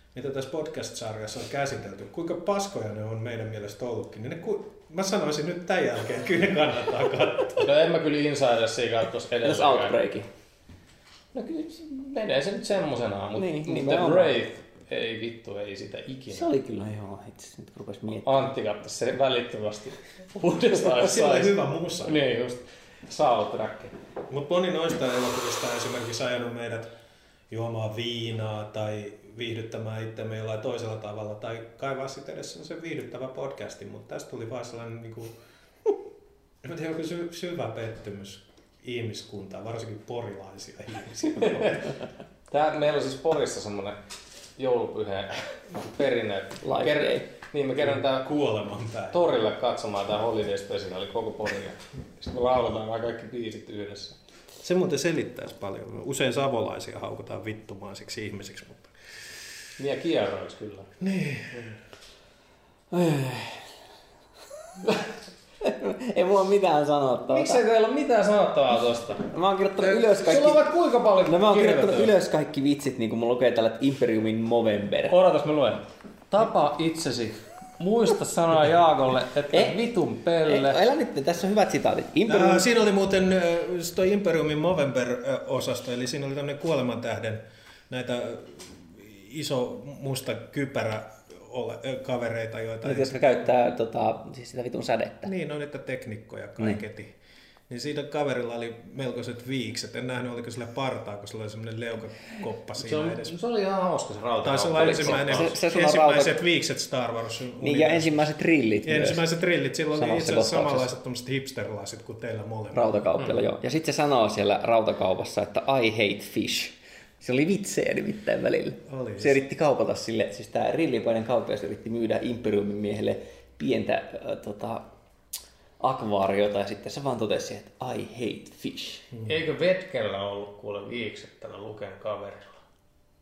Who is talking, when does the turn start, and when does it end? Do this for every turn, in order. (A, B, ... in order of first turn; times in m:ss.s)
0:00.1-0:07.7 A
0:07.6-0:10.0 B
0:09.4-0:10.3 C
0:11.3-0:16.5 B
0:13.4-0:14.3 C
0:16.3-0:18.4 C
0:18.2-0:23.9 B
0:20.8-0:22.2 A
0:24.3-0:26.9 A
0:27.5-0:35.3 A
0:36.6-0:41.9 A
0:41.4-0:41.8 B
0:42.5-0:44.0 B
0:44.6-0:48.3 B
0:46.6-0:47.3 C
0:47.8-0:49.2 A
0:49.1-0:54.2 B
0:54.6-0:58.9 A
0:59.8-1:00.9 B
1:01.0-1:01.8 A
1:02.9-1:03.7 C
1:05.6-1:07.6 C
1:07.3-1:09.3 B
1:09.3-1:10.7 C
1:09.8-1:12.1 B
1:11.2-1:15.1 C
1:15.1-1:20.8 B
1:19.5-1:19.8 C
1:20.5-1:22.6 C
1:22.3-1:33.4 A
1:32.8-1:35.3 C
1:35.2-1:37.1 A
1:37.7-1:43.3 A
1:42.8-1:45.5 B
1:44.4-1:48.3 A
1:44.8-1:46.4 C
1:47.6-1:49.2 C
1:48.8-1:53.0 A
1:49.9-1:50.9 C
1:52.7-2:04.8 C
1:58.9-1:59.4 A
2:05.8-2:09.1 C
2:09.2-2:12.6 B